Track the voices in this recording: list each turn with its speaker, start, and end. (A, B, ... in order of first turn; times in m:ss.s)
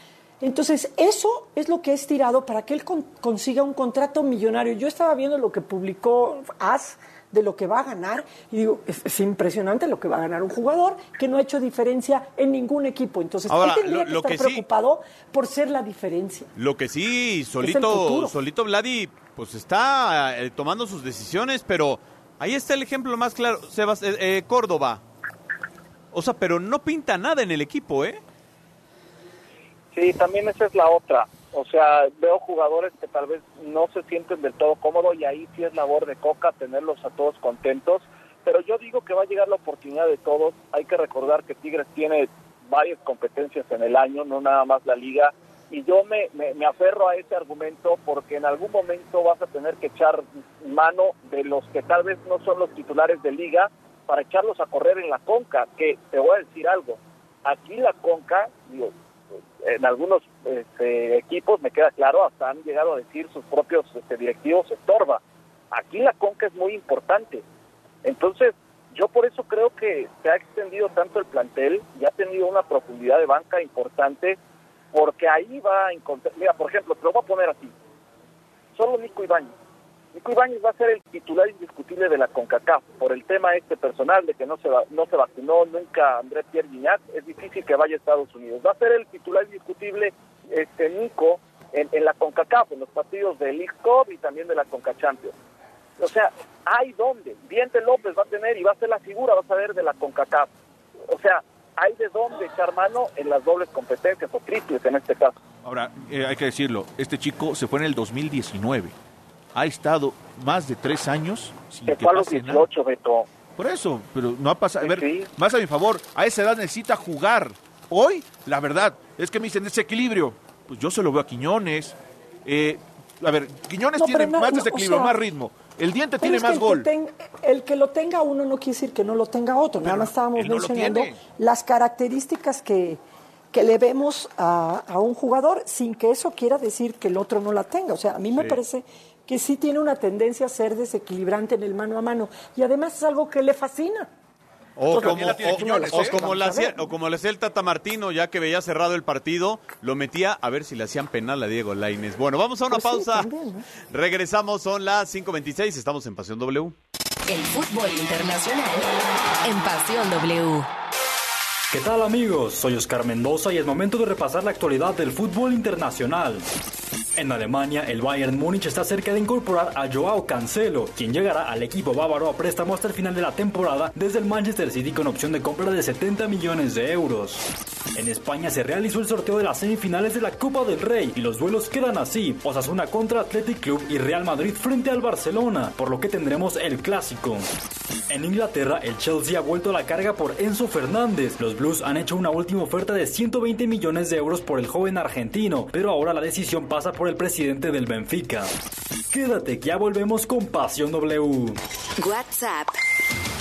0:00.4-0:16.5 A
0:13.5-0:14.6 B
0:16.6-0:25.0 B
0:17.6-0:18.4 A
0:26.1-0:28.2 B
0:29.9-0:58.9 C
0:59.6-1:05.2 C
1:05.7-1:07.4 C
1:08.0-1:14.4 C
1:14.9-1:17.7 C
1:18.8-1:19.5 C
1:20.1-1:35.3 C
1:36.0-1:40.5 C
1:41.1-1:45.4 C
1:45.6-1:49.0 D
1:49.5-1:52.7 D
1:51.9-1:53.3 C
1:53.6-2:06.9 D
1:54.8-1:55.3 C
2:04.0-2:05.2 A
2:06.2-2:13.0 A
2:09.8-2:11.2 D
2:13.5-2:24.1 A
2:24.8-2:33.3 B
2:24.9-2:26.2 D
2:24.9-2:26.9 A
2:32.7-2:33.6 A
2:33.9-2:36.8 B
2:37.3-2:38.9 E
2:39.4-2:40.7 E
2:41.7-2:46.4 F
2:47.2-2:57.4 F
2:58.0-3:07.4 F
3:08.1-3:18.5 F
3:19.1-3:21.6 F
3:22.0-3:22.8 E